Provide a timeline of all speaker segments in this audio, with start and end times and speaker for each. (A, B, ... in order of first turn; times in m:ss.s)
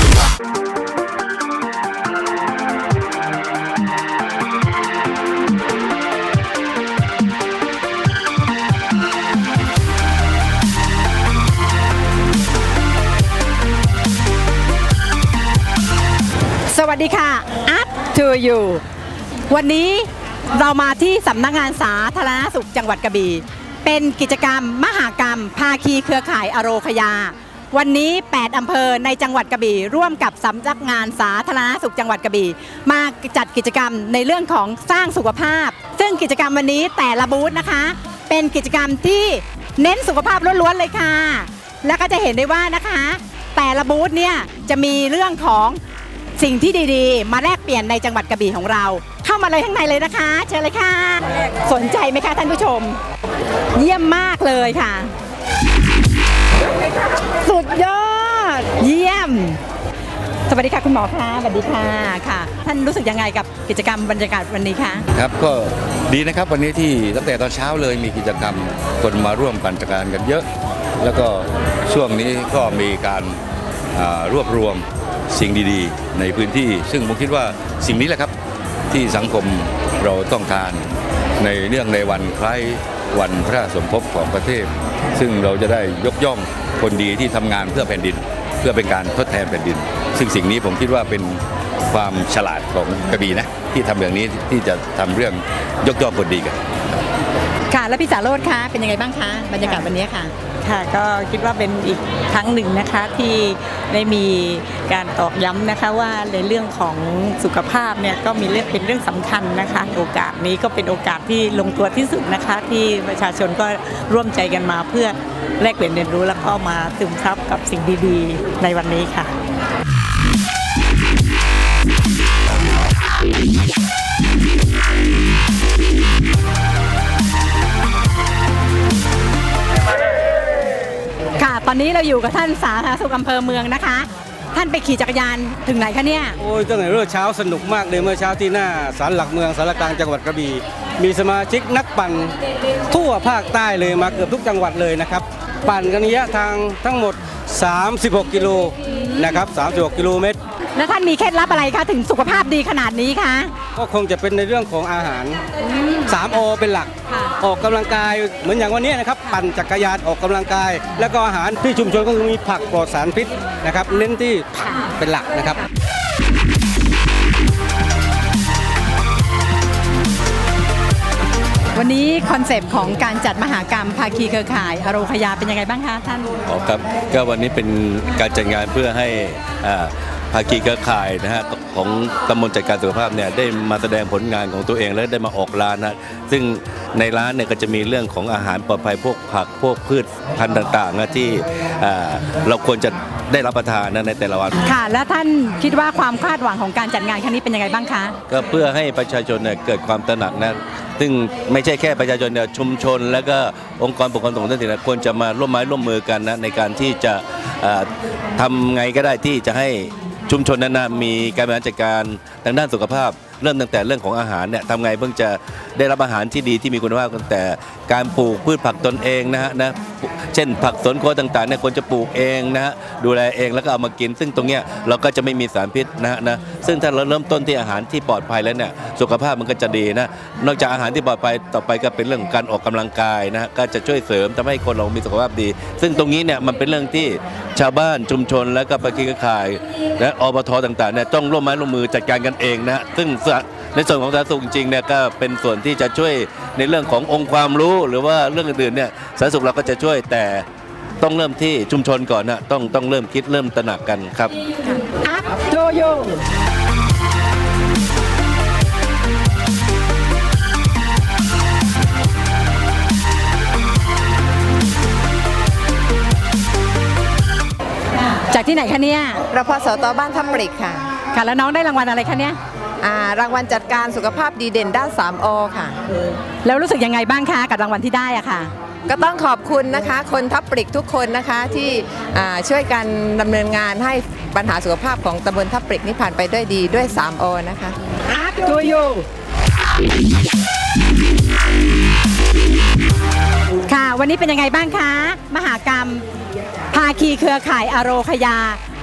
0:16.7-0:18.8 A
0:19.5-0:45.8 A
0:46.4-0:53.0 A
0:53.7-0:55.1 A
0:57.4-0:59.6 A
1:00.5-1:05.0 A
1:05.1-1:10.5 B
1:11.0-1:13.4 B
1:13.9-1:18.3 B
1:18.9-1:36.6 B
1:37.7-1:40.3 A
1:40.6-1:59.3 C
2:11.3-2:16.4 A
2:16.4-2:22.3 D
2:22.9-2:30.4 D
2:30.8-2:33.5 A
2:33.8-2:35.4 D
2:36.1-2:45.6 D
2:51.7-2:56.3 A
2:56.5-3:14.6 E
3:14.6-3:18.2 A
3:18.3-4:10.4 E
4:11.0-4:14.4 E
4:14.6-4:16.2 A
4:28.2-4:29.2 A
4:29.3-4:30.9 F
4:31.1-4:32.4 A
4:32.8-4:35.8 F
4:36.4-4:38.5 A
4:38.9-4:47.8 F
4:48.1-4:49.0 A
4:53.7-4:56.0 A
4:56.7-4:58.6 A